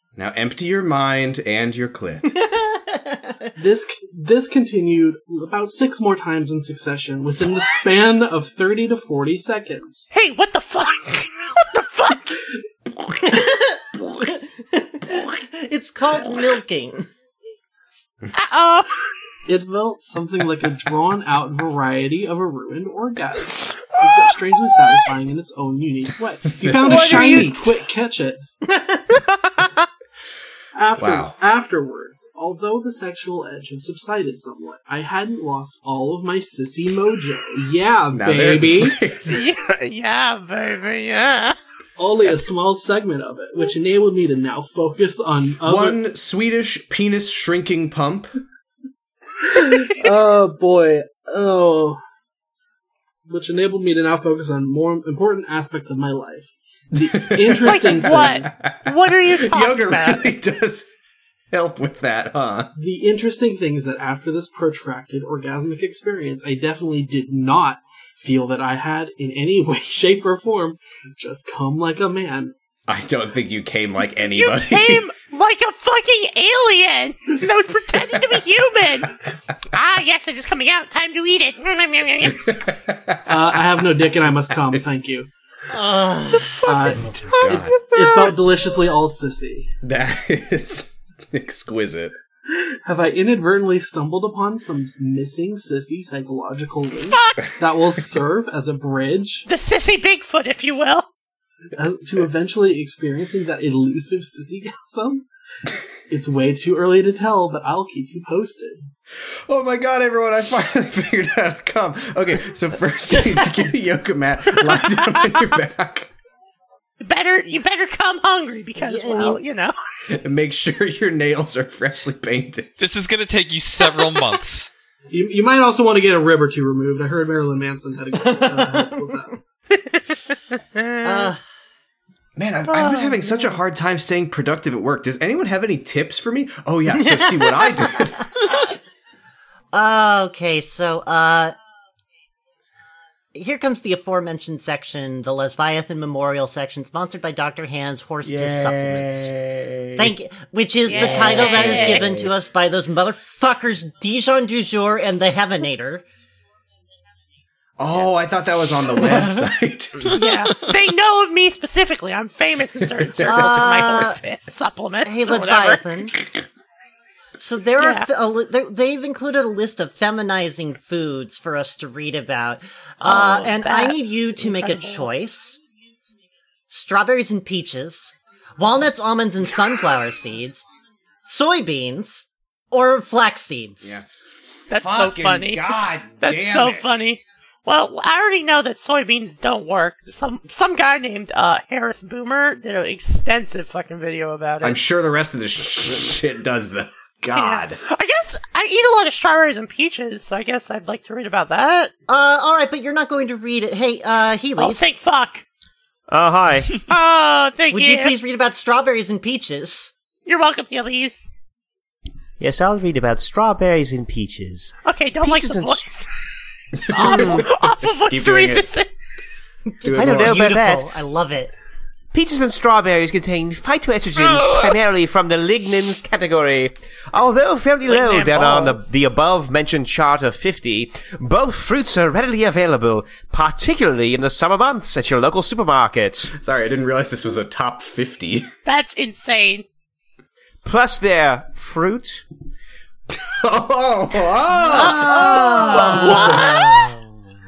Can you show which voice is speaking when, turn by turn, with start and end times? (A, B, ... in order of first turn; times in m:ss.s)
0:00.2-0:02.4 A
0:02.3-0:03.5 B
0:03.6-0:10.1 C
0:10.1-0:12.4 D
0:13.2-0:17.1 B
0:18.3-0:19.0 D
0:19.5-0:28.4 C
0:26.5-0:27.6 A
0:26.8-0:27.6 D
0:28.7-0:29.1 B
0:30.7-0:39.0 C
0:31.0-0:31.4 A
0:38.1-0:39.4 A
0:39.3-0:41.6 D
0:42.0-0:46.0 C
0:45.6-0:48.3 A
0:49.4-0:52.0 C
0:53.3-0:58.5 C
0:56.9-1:00.9 A
0:57.6-1:00.3 D
1:01.5-1:02.7 A
1:02.8-1:12.5 C
1:12.9-1:15.1 A
1:14.2-1:19.2 D
1:19.7-1:22.5 D
1:22.4-1:25.0 A
1:23.3-1:25.3 C
1:25.7-1:26.9 B
1:26.6-1:29.7 C
1:26.6-1:28.3 D
1:27.4-1:27.9 A
1:29.8-1:32.1 A
1:32.5-1:39.5 C
1:37.1-1:37.4 D
1:39.5-1:41.1 D
1:41.7-1:45.2 C
1:46.1-1:48.9 C
1:49.5-1:56.1 A
1:57.0-1:59.8 D
1:58.8-1:59.4 B
2:00.1-2:02.7 A
2:02.8-2:04.7 E
2:05.1-2:09.4 C
2:08.3-2:09.0 B
2:09.7-2:11.3 D
2:11.0-2:11.4 B
2:12.4-2:18.3 A
2:12.7-2:13.5 D
2:16.9-2:18.6 B
2:19.7-2:21.5 B
2:23.3-2:29.3 B
2:28.2-2:30.1 F
2:30.0-2:36.0 B
2:30.9-2:32.0 D
2:30.9-2:32.3 F
2:37.8-2:40.1 A
2:40.0-2:45.8 D
2:43.2-2:43.7 A
2:43.2-2:44.2 B
2:45.0-2:46.1 B
2:47.4-2:55.6 B
2:47.8-2:48.1 D
2:53.0-2:55.1 D
2:56.7-3:00.6 B
3:01.2-3:04.0 B
3:04.7-3:07.0 A
3:04.7-3:14.8 D
3:14.6-3:17.8 A
3:17.3-3:21.9 D
3:22.1-3:24.9 B
3:24.6-3:25.4 D
3:26.1-3:26.7 F
3:26.9-3:28.1 D
3:27.7-3:29.9 B
3:30.2-3:31.3 D
3:32.4-3:35.9 F
3:34.8-3:36.1 D
3:36.8-3:38.7 A
3:36.9-3:38.9 D
3:37.0-3:37.5 F
3:39.7-3:41.5 B
3:39.8-3:40.6 A
3:39.9-3:40.9 F
3:42.1-3:56.3 F
3:47.8-3:48.8 D
3:56.3-3:58.5 A
3:58.6-3:59.6 D
4:00.6-4:02.2 F
4:03.2-4:06.6 A
4:04.5-4:07.0 B
4:04.7-4:06.9 D